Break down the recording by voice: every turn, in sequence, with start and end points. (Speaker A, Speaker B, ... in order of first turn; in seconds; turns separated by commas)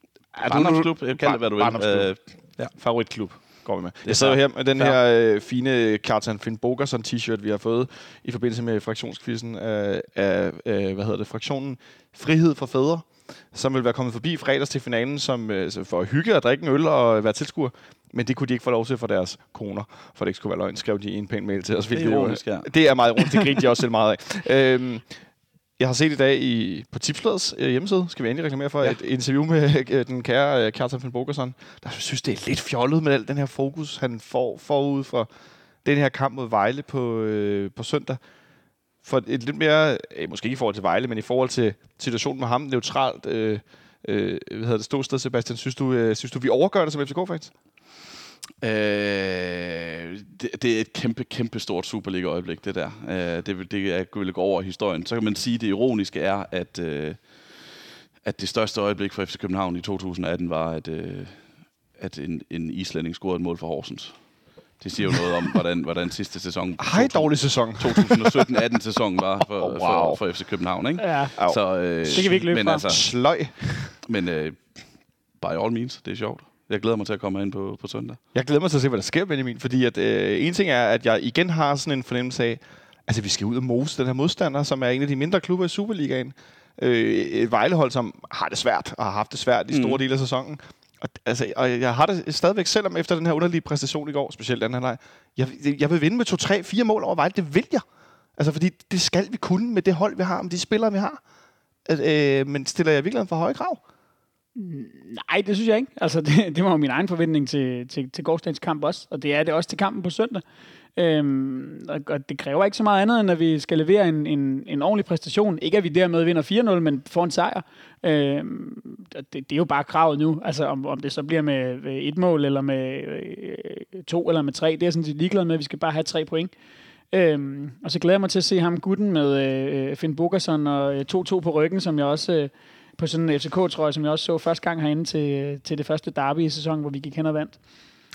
Speaker A: 0.3-2.1, Speaker B: 0.5-2.7, Speaker A: 2.7-25.1, Speaker B: 4.0-5.0, Speaker B: 21.9-22.7, Speaker A: 25.8-35.3, Speaker A: 35.8-38.2, Speaker A: 39.0-47.5, Speaker B: 48.6-57.2, Speaker B: 58.2-61.5, Speaker B: 62.0-64.2, Speaker B: 64.8-73.1, Speaker A: 66.8-68.5, Speaker A: 69.4-70.2, Speaker C: 71.0-71.3, Speaker A: 71.4-74.0, Speaker C: 72.1-72.8, Speaker B: 74.0-74.8, Speaker B: 75.4-78.2, Speaker A: 78.3-97.8, Speaker B: 89.7-90.0, Speaker A: 98.4-101.2, Speaker A: 101.9-103.8, Speaker C: 104.5-110.4, Speaker C: 111.0-126.5, Speaker C: 127.1-137.6